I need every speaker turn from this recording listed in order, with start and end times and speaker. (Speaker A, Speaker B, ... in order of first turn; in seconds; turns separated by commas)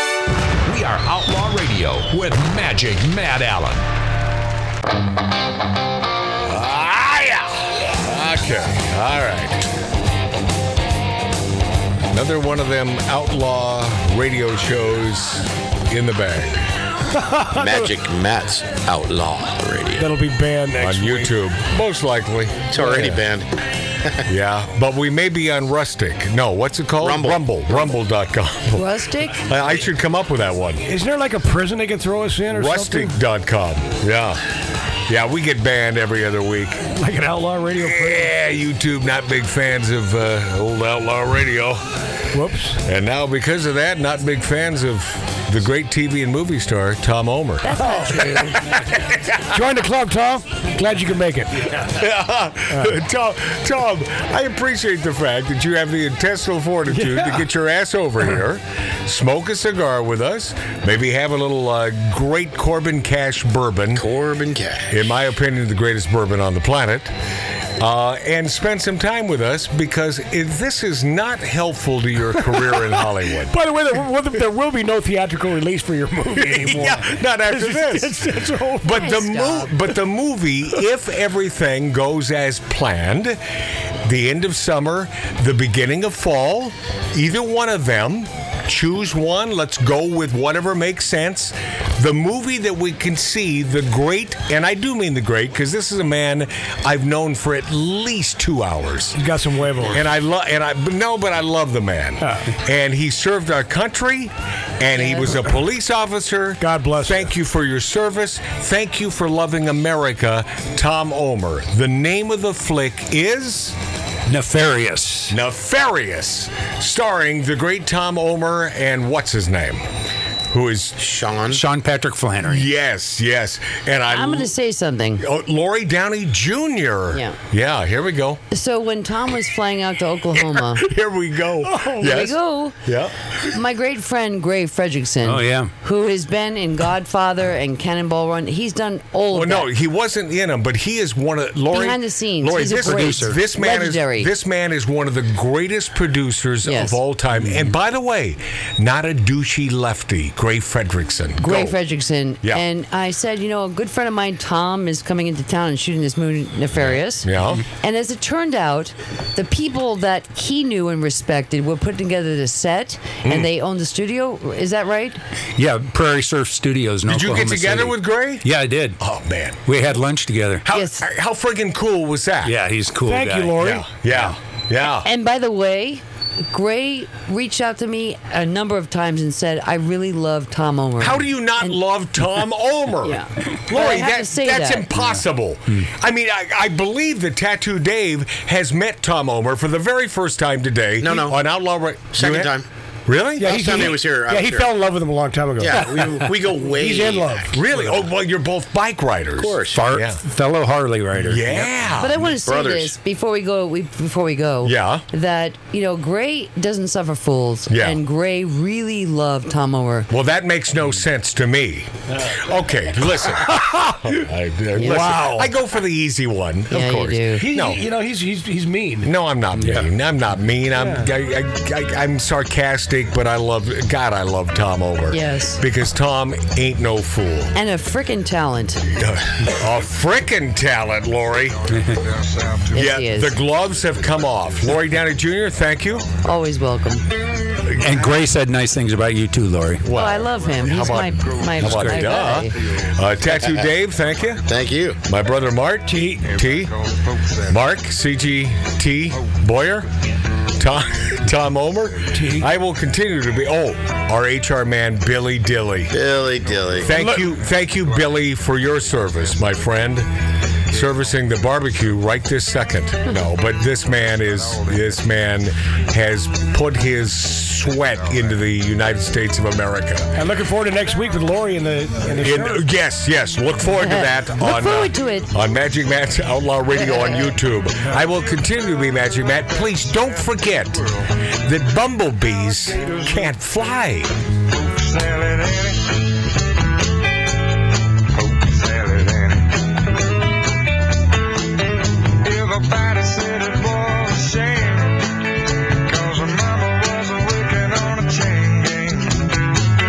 Speaker A: 0.6-3.9, Speaker B: 6.4-9.6, Speaker B: 12.1-16.6, Speaker C: 17.1-17.9, Speaker D: 17.5-20.1, Speaker C: 19.9-21.3, Speaker B: 20.8-22.9, Speaker D: 22.7-23.5, Speaker C: 22.8-23.2, Speaker B: 24.2-30.8, Speaker D: 27.0-27.9, Speaker E: 28.7-29.5, Speaker C: 30.9-33.1, Speaker B: 32.5-34.4, Speaker B: 35.1-36.9, Speaker C: 36.9-38.3, Speaker B: 37.7-41.8, Speaker C: 42.3-42.8, Speaker B: 42.8-49.4, Speaker E: 47.6-48.6, Speaker C: 49.5-51.7, Speaker B: 51.8-64.0, Speaker C: 57.0-57.3, Speaker D: 63.9-65.0, Speaker B: 64.9-67.1, Speaker B: 67.8-73.5, Speaker C: 73.4-79.0, Speaker B: 76.3-78.3, Speaker B: 78.8-99.2, Speaker E: 78.9-79.7, Speaker C: 99.2-100.0, Speaker B: 99.8-113.8, Speaker C: 102.2-102.5, Speaker E: 104.9-105.4, Speaker C: 106.6-107.3, Speaker F: 114.3-115.3, Speaker B: 115.3-119.8, Speaker B: 120.5-121.0, Speaker D: 121.0-121.6, Speaker F: 121.4-122.7, Speaker B: 122.4-124.5, Speaker E: 124.1-125.2, Speaker B: 125.2-128.4, Speaker E: 128.5-130.9, Speaker B: 130.3-133.1, Speaker E: 131.9-132.8, Speaker E: 133.5-139.7, Speaker F: 135.2-135.7, Speaker B: 139.3-151.8, Speaker E: 141.7-144.3, Speaker F: 142.7-143.4, Speaker E: 146.6-147.0, Speaker F: 147.3-147.7, Speaker E: 151.4-165.2, Speaker B: 156.8-157.6, Speaker B: 163.2-163.5, Speaker F: 165.6-169.0, Speaker B: 167.1-168.5, Speaker B: 169.0-169.6, Speaker F: 169.7-170.6, Speaker B: 170.7-172.5, Speaker E: 170.7-171.0, Speaker F: 172.4-174.3, Speaker C: 173.0-174.0, Speaker B: 173.7-175.1, Speaker E: 175.0-181.8, Speaker B: 181.0-193.6, Speaker E: 183.0-184.9, Speaker D: 191.0-191.5, Speaker D: 192.1-192.7, Speaker C: 193.4-198.0, Speaker D: 193.4-194.7, Speaker D: 195.6-197.6, Speaker F: 195.7-196.3, Speaker B: 197.5-200.2, Speaker D: 199.4-199.8, Speaker F: 199.7-201.7, Speaker B: 201.2-202.3, Speaker E: 202.0-210.1, Speaker D: 202.4-202.9, Speaker B: 204.6-205.0, Speaker B: 207.7-208.0, Speaker B: 210.1-217.8, Speaker E: 214.8-215.1, Speaker C: 214.8-215.5, Speaker E: 216.7-217.4, Speaker C: 217.3-219.1, Speaker B: 219.0-227.5, Speaker F: 219.6-219.9, Speaker C: 220.7-221.1, Speaker E: 225.1-225.6, Speaker E: 227.5-228.8, Speaker B: 228.9-231.6, Speaker G: 231.3-236.4, Speaker E: 232.7-233.4, Speaker B: 232.7-236.1, Speaker E: 236.2-237.0, Speaker B: 237.7-238.0, Speaker F: 237.8-239.8, Speaker G: 237.8-238.2, Speaker B: 239.8-244.4, Speaker E: 239.9-242.5, Speaker G: 240.2-241.7, Speaker F: 241.6-242.3, Speaker G: 242.4-244.5, Speaker D: 243.4-243.7, Speaker D: 244.4-245.0, Speaker B: 245.0-246.7, Speaker C: 245.9-246.2, Speaker G: 246.2-247.7, Speaker B: 247.5-249.9, Speaker G: 249.1-249.5, Speaker B: 250.6-255.9, Speaker G: 251.6-252.2, Speaker C: 252.1-252.5, Speaker D: 255.9-256.9, Speaker G: 256.2-260.1, Speaker B: 256.9-260.1, Speaker C: 256.9-257.2, Speaker G: 260.6-262.2, Speaker B: 260.7-270.1, Speaker G: 263.6-265.3, Speaker G: 267.5-269.0, Speaker C: 270.1-272.7, Speaker B: 272.2-280.9, Speaker E: 273.7-275.3, Speaker G: 275.3-275.7, Speaker E: 276.7-277.3, Speaker G: 278.1-281.2, Speaker B: 281.4-284.1, Speaker G: 282.4-283.6, Speaker G: 284.5-286.0, Speaker G: 288.1-289.6, Speaker G: 292.1-295.1, Speaker G: 295.8-299.4